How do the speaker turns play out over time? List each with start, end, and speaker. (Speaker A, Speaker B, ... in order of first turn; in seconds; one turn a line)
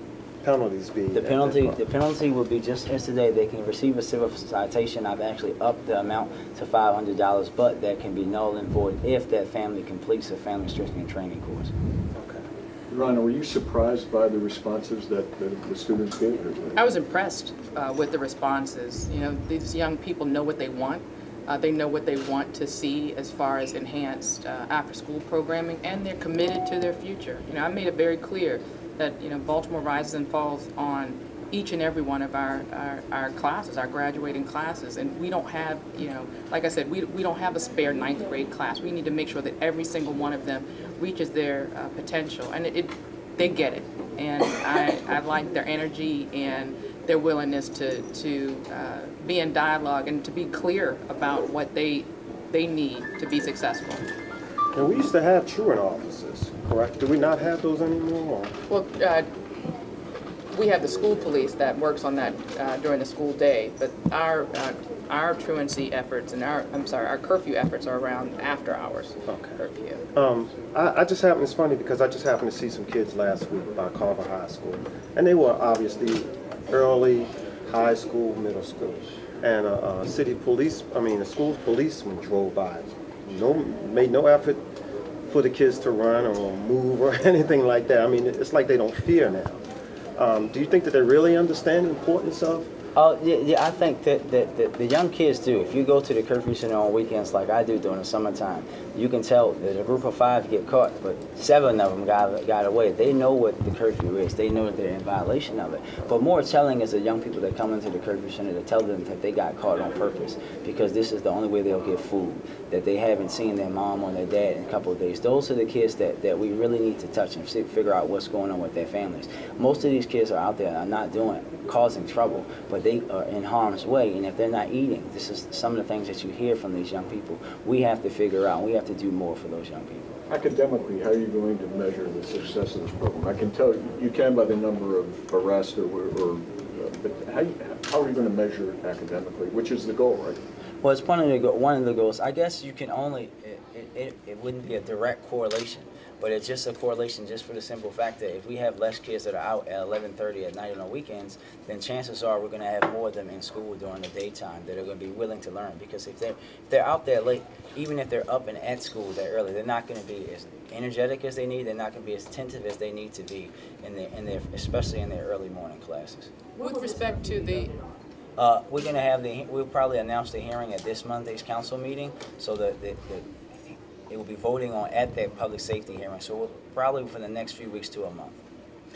Speaker A: 0.4-1.8
Speaker B: 1.1-11.7
Speaker A: 12.2-12.4
Speaker C: 12.9-16.8
Speaker D: 16.8-54.1
Speaker A: 54.7-58.5
Speaker D: 58.7-59.3
Speaker D: 60.5-70.0
Speaker A: 69.3-69.6
Speaker A: 70.1-84.6
Speaker A: 85.3-89.6
Speaker A: 90.2-92.7
Speaker B: 92.9-130.1
Speaker C: 130.3-140.4
Speaker B: 140.8-166.3
Speaker D: 166.6-167.8
Speaker B: 168.3-173.3
Speaker B: 174.1-178.4